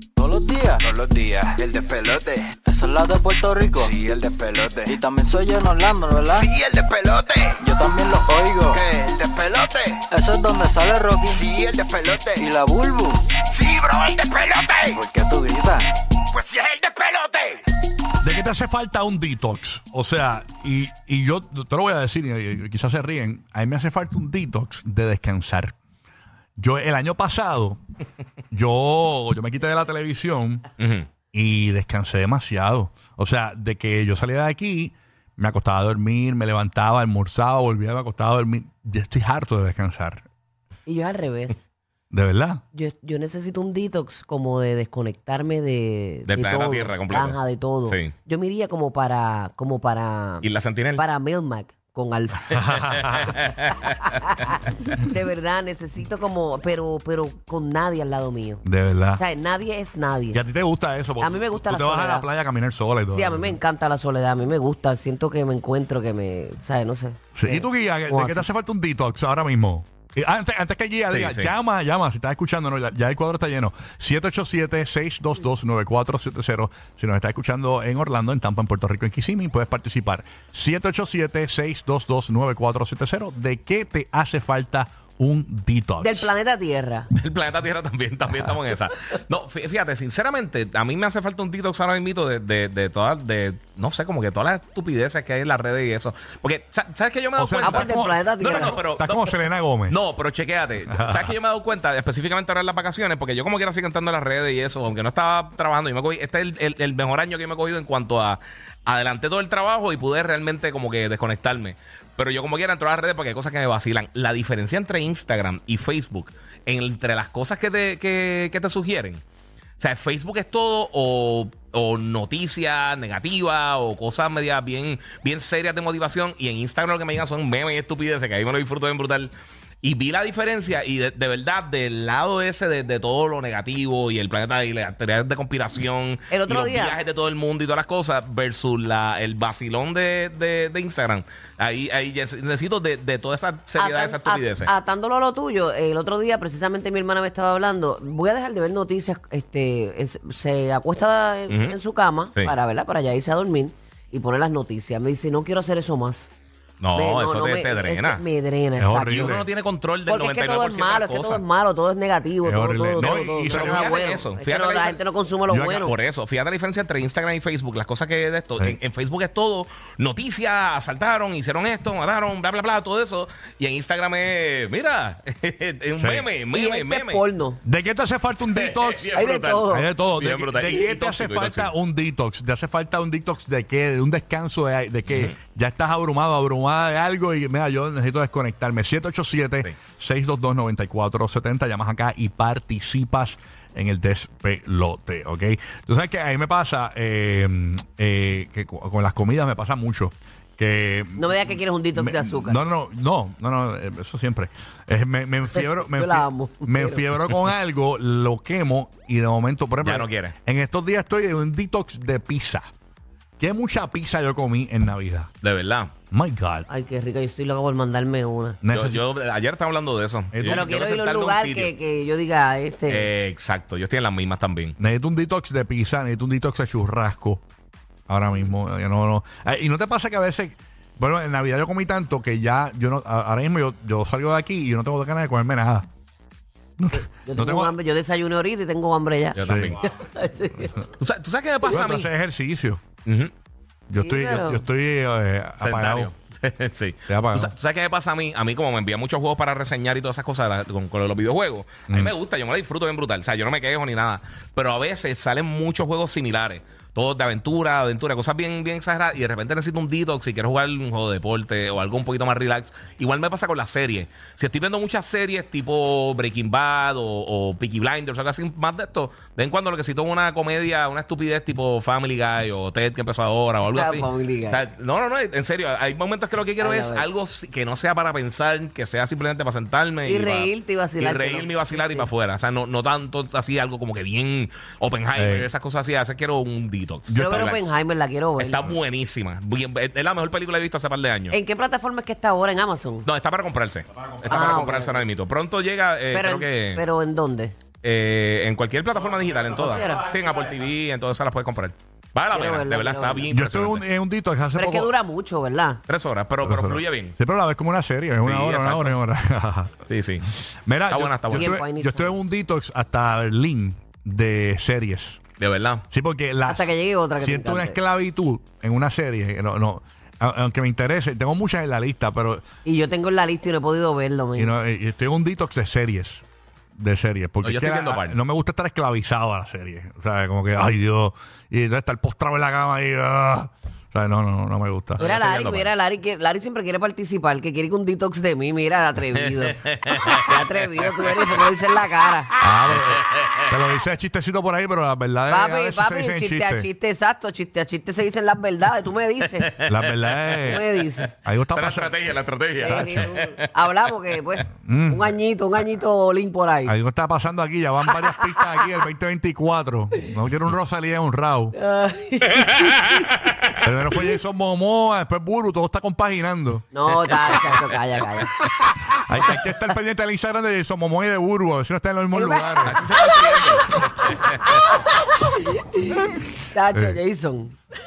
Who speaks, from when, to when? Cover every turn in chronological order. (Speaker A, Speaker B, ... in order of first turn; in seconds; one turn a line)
Speaker A: 0.2-0.9
Speaker B: 0.9-2.5
Speaker A: 2.5-4.0
Speaker B: 3.8-4.9
Speaker A: 4.8-6.5
Speaker B: 6.4-7.6
Speaker A: 7.6-8.9
Speaker B: 8.8-10.0
Speaker A: 10.1-11.5
Speaker B: 11.4-12.4
Speaker A: 12.3-13.2
Speaker B: 13.4-15.0
Speaker A: 14.8-15.9
Speaker B: 16.3-17.4
Speaker C: 18.2-25.8
Speaker C: 26.6-27.8
Speaker C: 28.5-30.6
Speaker D: 30.8-31.1
Speaker C: 31.3-40.3
Speaker E: 40.9-41.6
Speaker C: 42.1-42.6
Speaker E: 42.7-52.7
Speaker D: 46.3-48.1
Speaker D: 50.4-51.0
Speaker C: 52.5-53.4
Speaker D: 52.6-54.9
Speaker E: 54.1-58.6
Speaker C: 58.6-59.2
Speaker E: 59.2-60.4
Speaker C: 60.3-63.6
Speaker E: 61.2-62.3
Speaker E: 63.1-68.5
Speaker C: 67.3-86.3
Speaker D: 71.1-71.5
Speaker E: 86.0-87.1
Speaker D: 87.1-119.2
Speaker C: 97.3-100.0
Speaker E: 97.6-98.8
Speaker C: 100.9-101.3
Speaker D: 119.8-144.7
Speaker E: 136.3-137.0
Speaker E: 143.8-156.3
Speaker D: 151.5-151.8
Speaker D: 156.8-158.2
Speaker E: 156.9-159.4
Speaker C: 158.8-159.5
Speaker D: 159.0-161.4
Speaker E: 160.1-165.9
Speaker C: 162.4-163.9
Speaker D: 163.0-165.0
Speaker C: 165.5-165.9
Speaker D: 165.7-177.2
Speaker C: 176.0-176.2
Speaker E: 176.5-177.6
Speaker C: 177.6-179.1
Speaker D: 178.4-181.7
Speaker E: 179.1-179.9
Speaker C: 179.7-212.7
Speaker D: 185.1-185.4
Speaker E: 201.2-202.6
Speaker E: 205.5-207.1
Speaker D: 209.8-210.3
Speaker C: 213.4-215.3
Speaker D: 215.4-215.9
Speaker C: 216.1-216.7
Speaker E: 216.7-218.6
Speaker C: 218.6-219.0
Speaker D: 218.7-221.7
Speaker C: 220.3-220.7
Speaker E: 220.4-223.1
Speaker D: 222.9-224.7
Speaker C: 224.8-227.4
Speaker C: 228.1-235.9
Speaker C: 236.8-237.7
Speaker E: 237.2-240.8
Speaker D: 239.3-239.8
Speaker C: 239.4-239.7
Speaker D: 241.0-242.1
Speaker C: 241.6-242.8
Speaker D: 243.0-243.3
Speaker C: 243.9-246.1
Speaker E: 244.0-244.6
Speaker D: 245.6-287.7
Speaker C: 247.1-247.5
Speaker C: 251.9-252.1
Speaker E: 273.6-274.6
Speaker E: 276.6-277.1
Speaker E: 280.0-282.1
Speaker C: 285.1-285.5
Speaker C: 287.1-287.5
Speaker E: 287.1-288.6
Speaker D: 288.4-291.4
Speaker E: 291.3-293.1
Speaker D: 293.0-296.8
Speaker E: 294.2-295.0
Speaker E: 296.1-297.5
Speaker D: 297.8-303.9
Speaker E: 299.6-300.1
Speaker E: 302.3-303.3
Speaker C: 303.3-304.9
Speaker E: 304.6-305.8
Speaker D: 305.9-307.1
Speaker C: 306.4-309.8
Speaker D: 308.2-309.0
Speaker D: 309.9-310.3
Speaker C: 310.3-315.2
Speaker D: 310.9-311.5
Speaker E: 311.3-312.2
Speaker D: 315.4-315.8
Speaker C: 315.9-322.4
Speaker E: 316.5-317.8
Speaker E: 322.6-324.5
Speaker C: 324.4-326.2
Speaker C: 326.8-335.0
Speaker D: 327.4-328.2
Speaker D: 335.0-335.7
Speaker E: 335.0-342.3
Speaker D: 339.1-341.4
Speaker C: 342.4-346.7
Speaker D: 342.7-343.5
Speaker E: 345.3-349.5
Speaker D: 349.3-350.6
Speaker C: 349.7-350.6
Speaker E: 350.4-351.1
Speaker C: 351.2-352.0
Speaker D: 351.5-353.5
Speaker E: 352.6-356.7
Speaker C: 352.6-353.1
Speaker C: 354.6-355.1
Speaker C: 356.6-361.6
Speaker E: 358.0-358.6
Speaker E: 361.5-362.9
Speaker C: 363.6-366.6
Speaker E: 366.7-368.5
Speaker C: 368.9-372.8
Speaker E: 372.1-373.5
Speaker D: 372.6-374.6
Speaker E: 375.2-377.6
Speaker C: 376.7-377.0